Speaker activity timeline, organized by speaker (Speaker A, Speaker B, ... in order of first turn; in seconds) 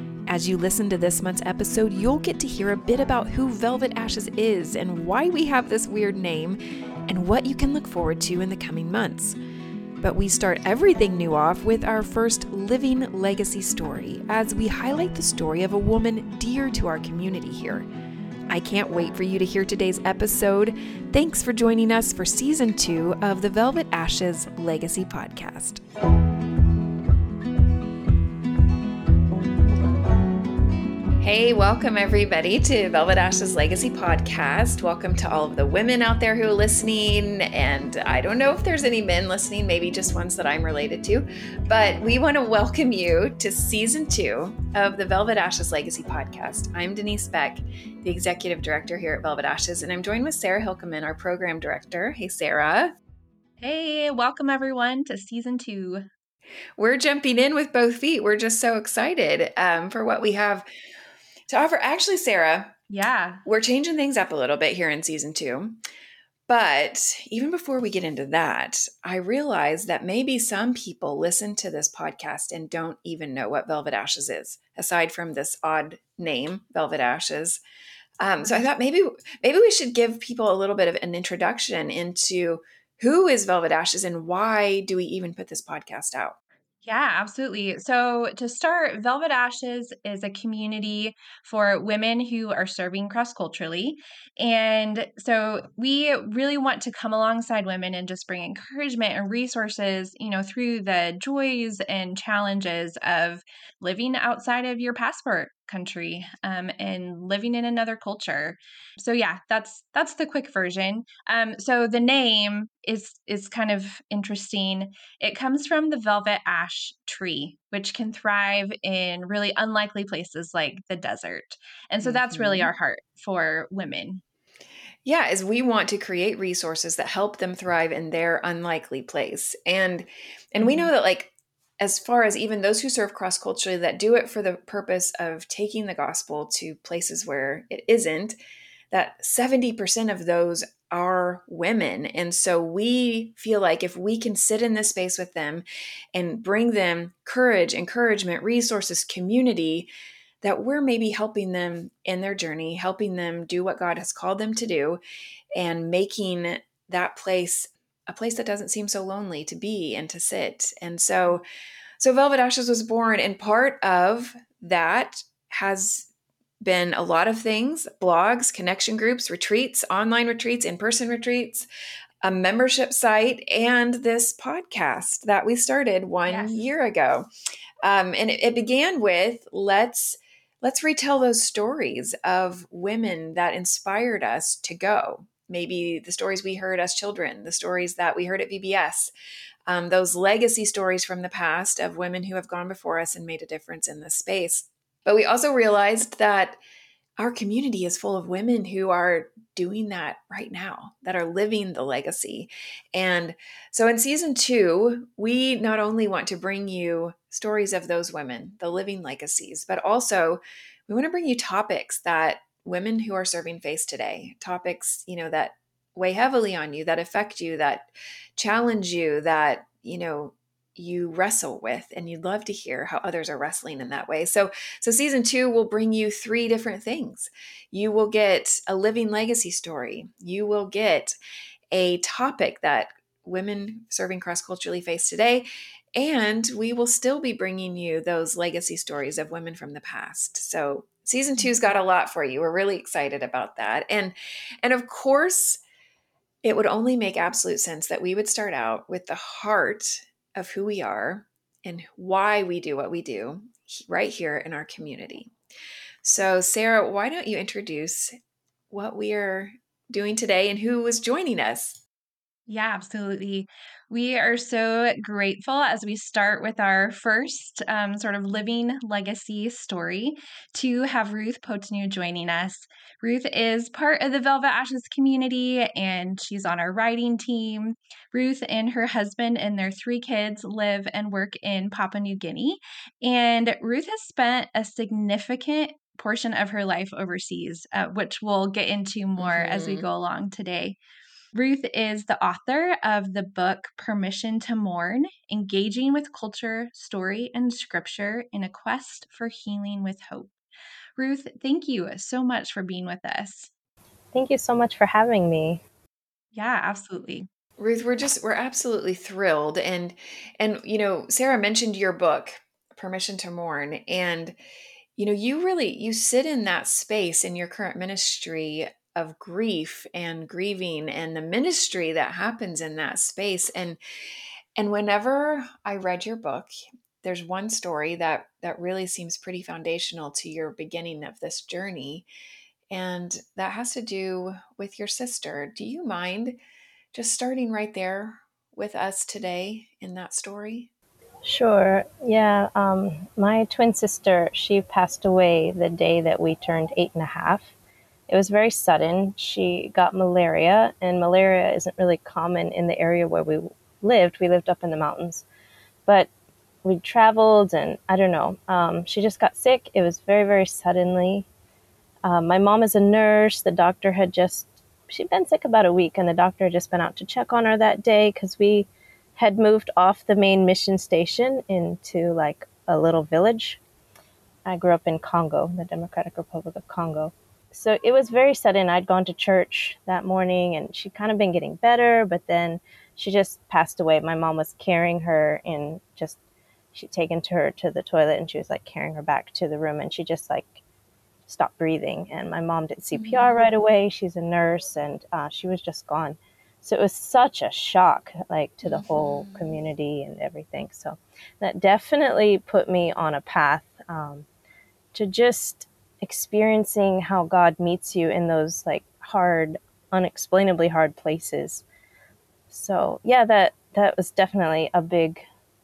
Speaker A: 0.2-9.4, 10.0-17.9, 18.5-25.8, 31.2-53.0, 56.8-60.7, 61.5-62.7, 63.5-65.8, 66.5-77.6, 78.2-86.4, 122.0-122.7, 125.0-138.4, 138.9-149.9, 150.4-155.0, 155.6-161.4, 162.0-166.1, 166.6-171.7, 172.2-177.3, 177.8-189.1, 189.7-196.6, 197.2-231.2, 231.7-245.6, 246.4-255.3, 256.0-258.1, 258.7-261.8, 289.2-289.9, 307.6-314.4, 315.0-323.8, 324.6-332.1, 332.7-336.4, 336.9-340.7, 392.9-393.4, 398.6-399.6
Speaker B: 53.6-56.1, 62.9-63.4, 78.4-78.7, 86.8-124.2, 130.6-130.9, 176.3-176.6, 262.5-290.8, 291.3-300.3, 301.0-303.5, 306.3-307.3
Speaker C: 304.1-305.6, 341.2-347.5, 348.1-355.2, 356.6-361.3, 362.0-373.6, 374.4-386.2, 386.7-390.6, 391.3-404.2, 404.9-411.6, 412.5-415.2